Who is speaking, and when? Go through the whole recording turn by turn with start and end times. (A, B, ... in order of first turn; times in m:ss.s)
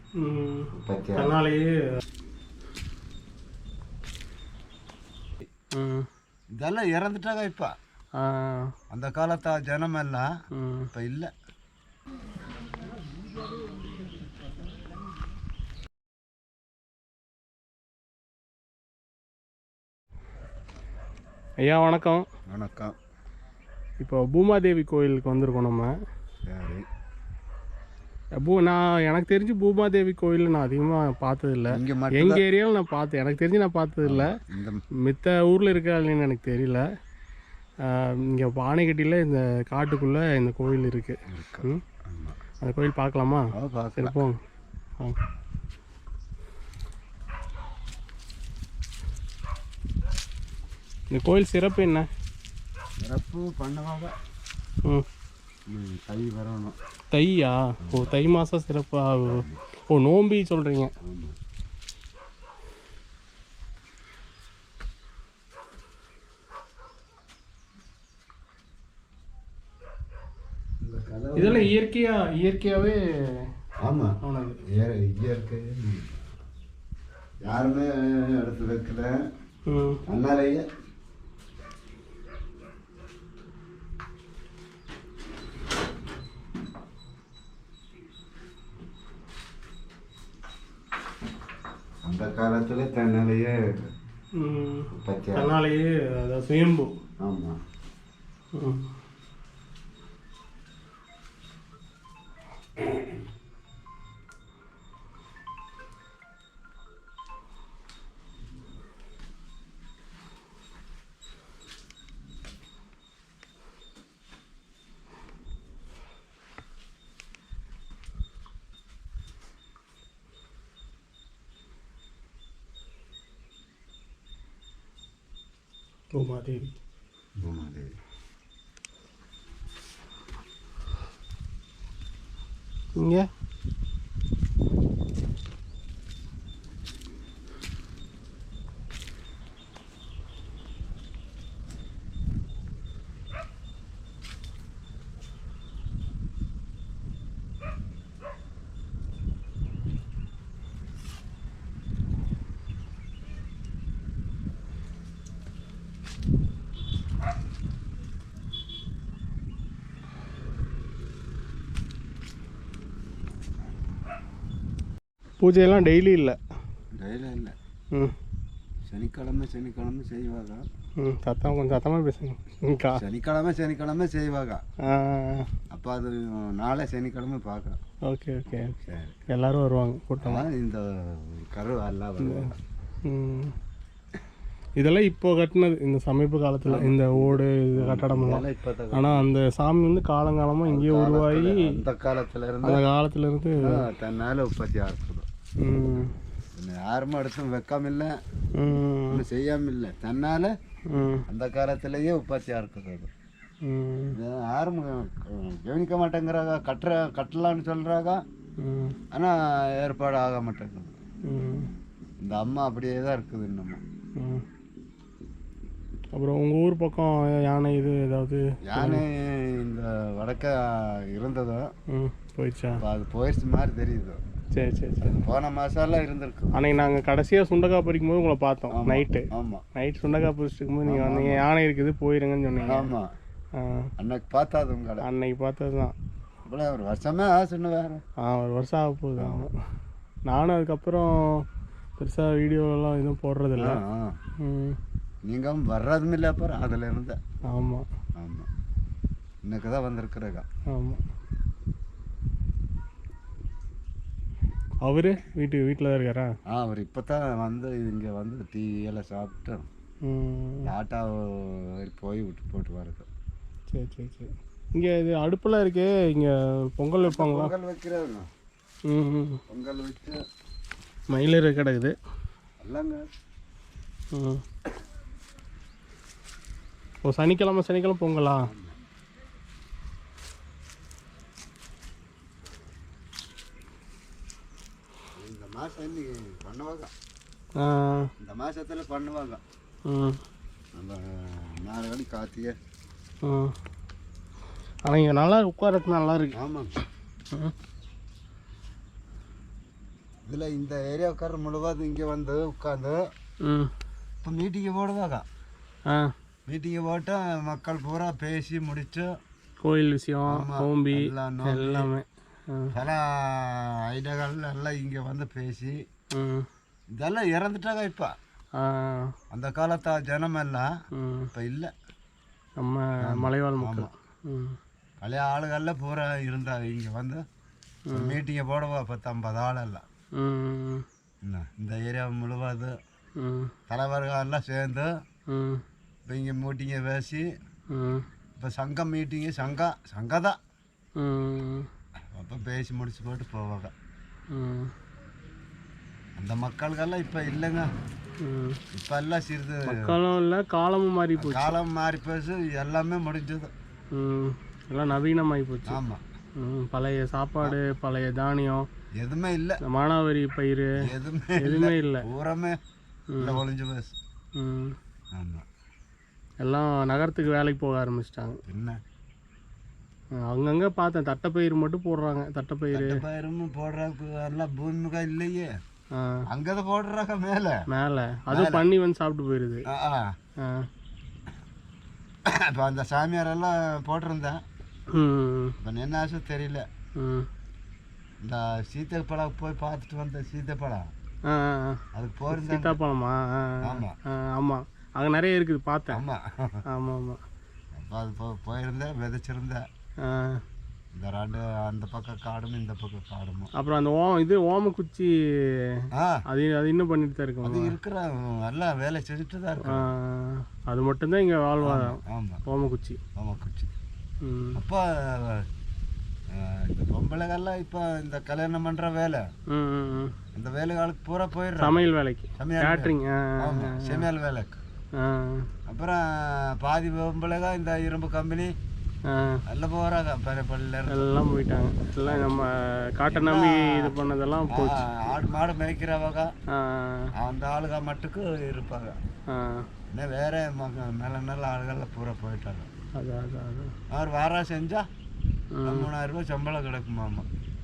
0:00.2-0:02.0 A
0:00.7-0:01.3 B
0:05.7-0:06.1 A
0:06.6-0:07.7 B
0:08.2-0:08.7 A
0:08.9-0:10.3 B
0:10.5-0:10.9 A
0:10.9-0:11.3 B
0:21.6-0:22.2 A
0:22.5-0:23.0 B
0:24.0-0:25.9 A
0:26.5-0:26.8 B
0:28.4-0:34.3 A
0:31.7-0:32.4 B
0:34.0-0:34.8 B
0:35.0-0:36.8 A
0:37.8-0:41.8 A
0:41.3-0:42.4 B
0:42.6-0:44.4 A
0:43.5-0:44.2 B
0:51.1-0:52.1 A
0:53.0-0:54.1 B
0:55.7-0:56.8 B
0:57.1-1:00.9 A
0:57.8-0:58.1 B
0:59.2-0:59.6 B
1:01.0-1:01.4 B
1:10.8-1:11.7 B
1:11.4-1:13.0 A
1:13.8-1:14.1 B
1:14.2-1:14.6 A
1:14.7-1:16.1 B
1:17.4-1:19.2 B
1:19.7-1:20.0 A
1:20.1-1:20.6 B
1:32.0-1:33.9 B
1:34.4-1:36.9 A
1:34.9-1:35.5 B
1:37.2-1:37.5 B
1:38.6-1:38.9 A
2:06.1-2:06.7 A
2:07.4-2:07.9 B
2:13.0-2:13.3 A
2:45.4-2:46.4 A
2:46.9-2:47.5 B
2:48.8-2:50.6 B
2:51.0-2:53.0 A
2:52.9-2:54.6 B
2:54.8-2:55.5 A
2:55.7-2:57.8 B
2:58.0-2:58.8 A
2:58.7-2:59.2 B
2:59.3-3:00.5 A
3:00.2-3:02.5 B
3:02.2-3:02.5 A
3:03.0-3:03.5 A
3:04.8-3:11.7 A
3:06.6-3:09.2 B
3:10.6-3:12.8 B
3:12.6-3:13.8 A
3:13.6-3:15.2 B
3:15.6-3:16.1 A
3:16.6-3:18.1 B
3:18.5-3:19.2 A
3:19.1-3:20.5 B
3:20.9-3:21.2 A
3:21.3-3:23.1 B
3:23.6-3:24.2 A
3:24.1-3:28.2 B
3:28.6-3:29.0 A
3:29.1-3:30.9 B
3:31.3-3:31.7 A
3:32.2-3:33.8 B
3:34.2-3:34.4 A
3:36.1-3:39.0 A
3:38.7-3:41.7 B
3:41.9-3:42.8 A
3:42.8-3:44.2 B
3:44.5-3:45.2 A
3:45.0-3:46.7 B
3:46.5-3:52.9 A
3:48.7-3:49.6 B
3:50.8-3:51.5 B
3:52.6-3:53.1 B
3:53.6-3:53.9 A
3:54.0-3:55.0 B
3:55.0-3:55.9 A
3:56.4-3:58.0 B
3:58.2-3:59.5 A
3:59.2-3:59.5 B
4:00.3-4:01.4 A
4:02.0-4:03.8 A
4:03.6-4:04.2 B
4:04.4-4:04.8 A
4:05.3-4:07.2 B
4:07.5-4:07.8 A
4:08.2-4:08.5 B
4:09.4-4:10.4 B
4:10.7-4:11.0 A
4:14.8-4:16.3 A
4:16.5-4:19.7 B
4:20.0-4:20.7 A
4:20.6-4:23.1 B
4:23.7-4:27.5 A
4:27.0-4:28.3 B
4:28.9-4:29.4 A
4:29.5-4:30.2 B
4:31.1-4:31.9 A
4:32.6-4:33.0 B
4:34.1-4:34.4 A
4:37.0-4:38.5 A
4:38.4-4:38.8 B
4:45.2-4:46.9 B
4:47.6-4:48.1 A
4:48.2-4:49.4 B
4:49.9-4:50.2 A
4:50.7-4:52.5 B
4:53.2-4:53.5 A
4:54.8-4:56.3 A
4:56.4-4:56.7 B
5:00.2-5:03.0 B
5:03.4-5:03.7 A
5:04.2-5:05.2 B
5:06.5-5:09.1 B
5:09.6-5:12.7 A
5:10.3-5:11.9 B
5:12.7-5:15.8 B
5:16.1-5:16.4 A
5:17.0-5:18.1 B
5:18.6-5:19.1 A
5:19.3-5:20.7 B
5:20.9-5:21.3 A
5:21.3-5:21.7 B
5:22.6-5:24.6 A
5:23.0-5:23.9 B
5:25.0-5:27.2 B
5:27.9-5:28.2 A
5:27.9-5:29.8 B
5:30.2-5:30.8 A
5:31.2-5:32.7 B
5:33.2-5:33.5 A
5:33.7-5:34.9 B
5:35.3-5:35.6 A
5:36.1-5:37.3 B
5:37.7-5:38.0 A
5:38.4-5:40.4 B
5:41.0-5:41.7 A
5:42.1-5:43.7 B
5:44.3-5:44.7 A
5:46.2-5:47.7 B
5:48.2-5:48.6 A
5:48.7-5:49.9 B
5:49.7-5:51.5 A
5:51.2-5:53.5 B
5:53.9-5:55.8 A
5:55.7-5:56.0 B
5:56.4-5:58.7 A
5:57.4-5:57.7 B
5:59.0-5:59.6 B
5:59.6-6:00.8 A
6:00.8-6:02.6 B
6:01.4-6:02.1 A
6:03.1-6:03.4 A
6:03.2-6:03.9 B
6:04.4-6:04.7 A
6:05.1-6:05.4 B
6:06.4-6:08.4 A
6:08.4-6:08.8 B
6:10.2-6:13.0 A
6:12.7-6:15.5 B
6:15.9-6:16.2 A
6:16.3-6:17.6 B
6:17.7-6:19.6 A
6:18.3-6:18.6 B
6:19.7-6:20.1 B
6:20.4-6:20.7 A
6:22.3-6:24.4 B
6:24.9-6:25.6 A
6:25.6-6:26.6 B
6:27.0-6:27.3 A
6:28.2-6:30.9 B
6:31.3-6:36.0 A
6:31.9-6:32.8 B
6:33.6-6:33.9 B
6:35.9-6:36.6 B
6:36.7-6:37.2 A
6:37.7-6:39.6 B
6:40.0-6:40.4 A
6:40.9-6:43.5 B
6:43.6-6:45.1 A
6:45.7-6:47.8 A
6:47.4-6:49.8 B
6:49.6-6:53.0 A
6:51.6-6:52.4 B
6:53.2-6:53.7 B
6:54.2-6:54.6 A
6:54.6-6:55.4 B
6:56.3-6:59.2 B
6:59.5-7:00.1 A
7:00.3-7:04.6 B
7:01.6-7:04.0 A
7:05.0-7:05.5 A
7:05.7-7:08.5 B
7:09.1-7:09.4 A
7:09.5-7:11.1 B
7:10.9-7:14.8 A
7:12.0-7:12.5 B
7:13.1-7:13.9 B
7:14.5-7:16.3 B
7:16.5-7:17.1 A
7:17.2-7:19.0 B
7:19.3-7:19.6 A
7:19.9-7:22.7 B
7:23.0-7:23.7 A
7:23.9-7:24.8 B
7:25.5-7:25.9 A
7:25.6-7:27.2 B